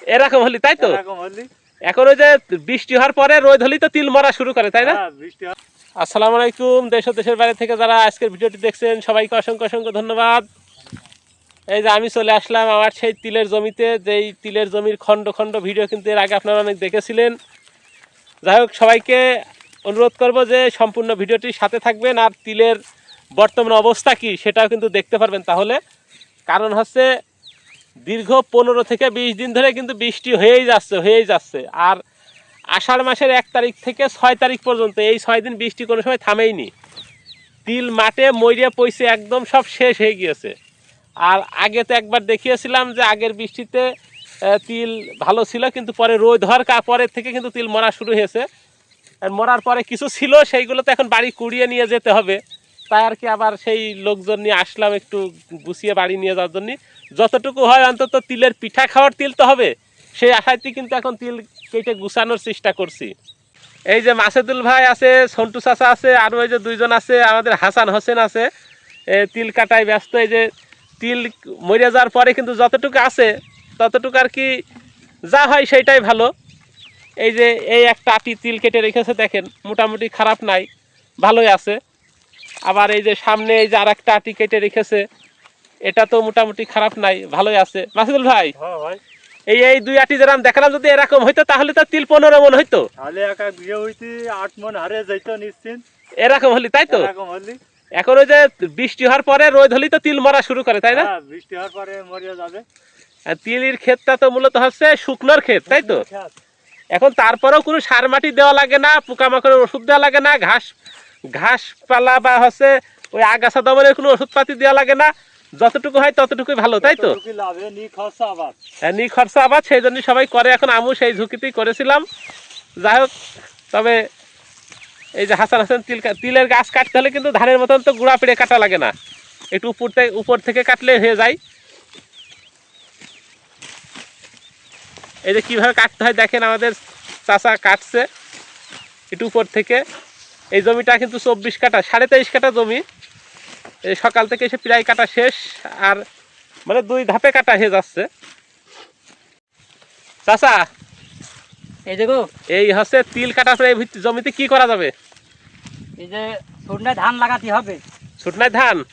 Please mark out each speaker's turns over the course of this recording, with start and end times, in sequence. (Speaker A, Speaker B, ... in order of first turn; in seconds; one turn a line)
Speaker A: 0.1-1.0
Speaker B: 0.8-1.5
Speaker A: 1.9-5.0
Speaker B: 4.8-5.5
Speaker A: 6.0-10.4
Speaker A: 11.7-17.4
Speaker A: 18.4-19.2
Speaker A: 19.9-22.8
Speaker A: 23.4-25.8
Speaker A: 26.5-27.1
Speaker A: 28.1-32.0
Speaker A: 32.7-36.7
Speaker A: 37.6-40.5
Speaker A: 41.2-43.8
Speaker A: 44.5-48.4
Speaker A: 49.2-63.1
Speaker A: 63.9-68.5
Speaker A: 69.1-70.5
Speaker A: 71.0-74.5
Speaker A: 75.3-76.3
Speaker A: 77.2-80.7
Speaker A: 81.2-81.8
Speaker A: 82.7-85.0
Speaker A: 85.9-88.5
Speaker B: 88.5-89.0
Speaker A: 89.5-92.8
Speaker B: 93.0-95.8
Speaker A: 96.2-97.1
Speaker B: 96.9-97.6
Speaker A: 98.0-101.1
Speaker B: 100.9-102.6
Speaker A: 103.3-106.0
Speaker B: 105.7-106.3
Speaker A: 106.9-110.7
Speaker A: 111.3-117.2
Speaker B: 116.8-118.5
Speaker A: 118.8-122.0
Speaker A: 122.8-123.1
Speaker A: 123.7-124.0
Speaker A: 125.2-128.9
Speaker A: 129.5-131.4
Speaker A: 135.2-136.7
Speaker A: 137.3-138.1
Speaker A: 139.1-139.8
Speaker A: 140.5-142.8
Speaker A: 143.9-146.0
Speaker A: 146.7-148.1
Speaker A: 150.2-150.7
Speaker C: 151.9-152.3
Speaker A: 152.5-154.9
Speaker C: 156.0-157.8
Speaker A: 158.2-158.8